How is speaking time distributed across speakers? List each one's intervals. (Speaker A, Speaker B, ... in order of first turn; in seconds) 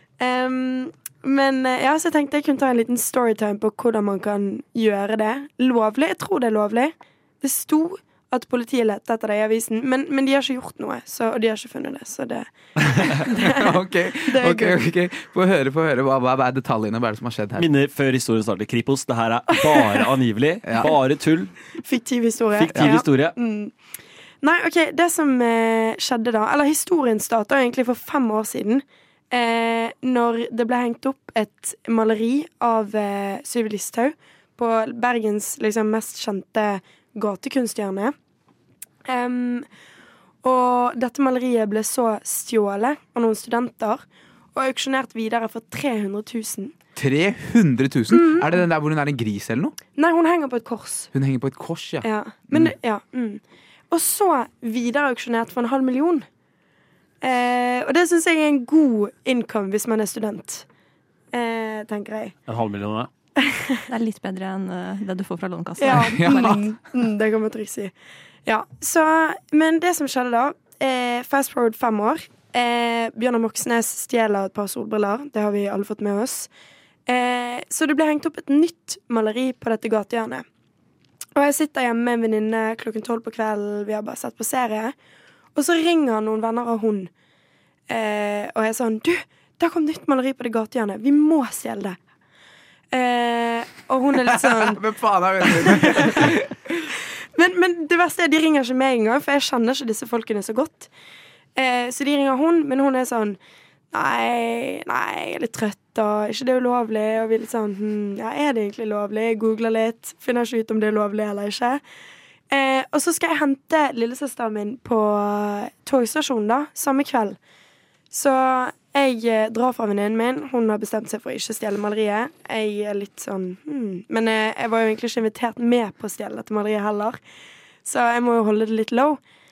Speaker A: 0.2-13.7, 14.3-14.9, 21.8-23.8, 24.4-38.1, 39.0-39.7, 40.4-44.0, 44.5-46.8, 48.1-48.6, 50.0-51.1, 52.0-56.3, 57.2-60.6, 61.3-62.4, 63.4-63.8, 65.8-67.9, 68.5-76.5, 77.1-80.5, 81.4-85.0, 85.5-87.1, 87.9-92.0, 92.9-94.8, 95.4-96.3, 97.4-100.9, 101.6-103.4, 103.9-111.8, 112.5-117.4, 118.1-127.2, 127.8-129.2
Speaker B: 13.4-17.7, 20.6-20.9, 47.0-49.8, 51.1-52.7, 65.9-66.7, 94.1-96.9
Speaker C: 17.6-21.5, 22.6-23.4, 62.5-63.1
Speaker D: 63.9-66.6